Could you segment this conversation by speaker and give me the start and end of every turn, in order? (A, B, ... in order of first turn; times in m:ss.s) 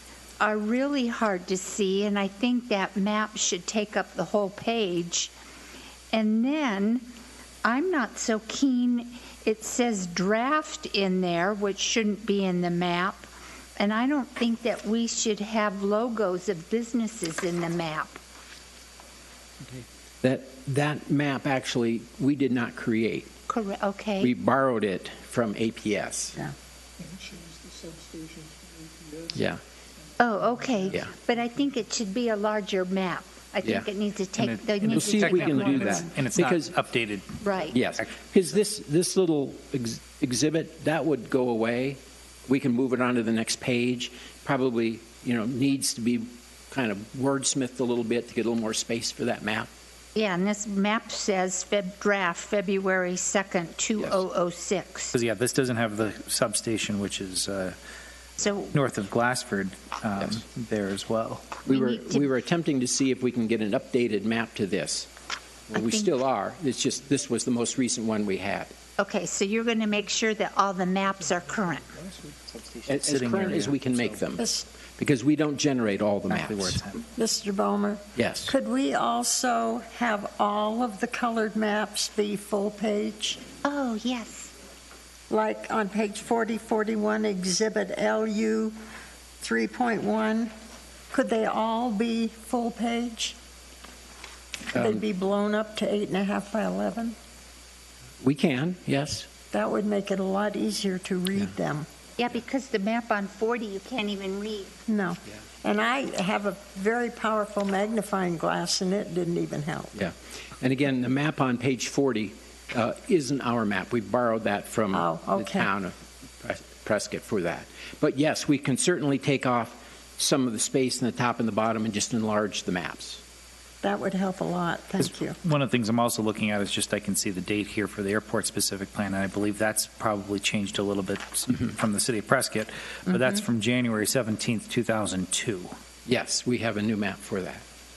0:00.4-0:05.3 A
0:06.1-0:07.0 A
0:07.6-0:18.2 A
0:19.6-0:23.3 B
0:23.5-0:24.3 A
0:24.2-0:26.4 B
0:29.3-0:29.6 B
0:30.2-0:36.1 A
0:34.4-0:38.0 C
0:34.9-0:36.7 B
0:37.4-0:37.8 A
0:37.7-0:49.7 B
0:50.1-0:55.1 A
0:55.1-0:57.8 C
0:58.4-0:58.7 A
0:58.7-1:01.5 C
1:01.6-1:05.1 B
1:01.7-1:02.3 A
1:05.7-1:08.7 B
1:05.7-1:06.1 A
1:09.0-1:11.9 A
1:12.5-1:14.2 C
1:12.9-1:16.8 B
1:14.4-1:14.7 D
1:16.3-1:17.0 C
1:17.1-1:23.4 D
1:18.2-1:18.5 B
1:23.6-1:24.5 A
1:25.3-1:28.8 D
1:29.4-1:30.5 D
1:31.1-1:33.4 D
1:34.7-1:37.1 D
1:34.7-1:35.0 B
1:38.2-1:39.3 B
1:39.5-1:41.9 D
1:42.2-1:44.7 A
1:44.9-1:49.9 D
1:49.9-2:03.2 B
1:54.9-1:55.7 D
2:03.8-2:05.4 D
2:05.0-2:15.7 C
2:16.0-2:17.6 B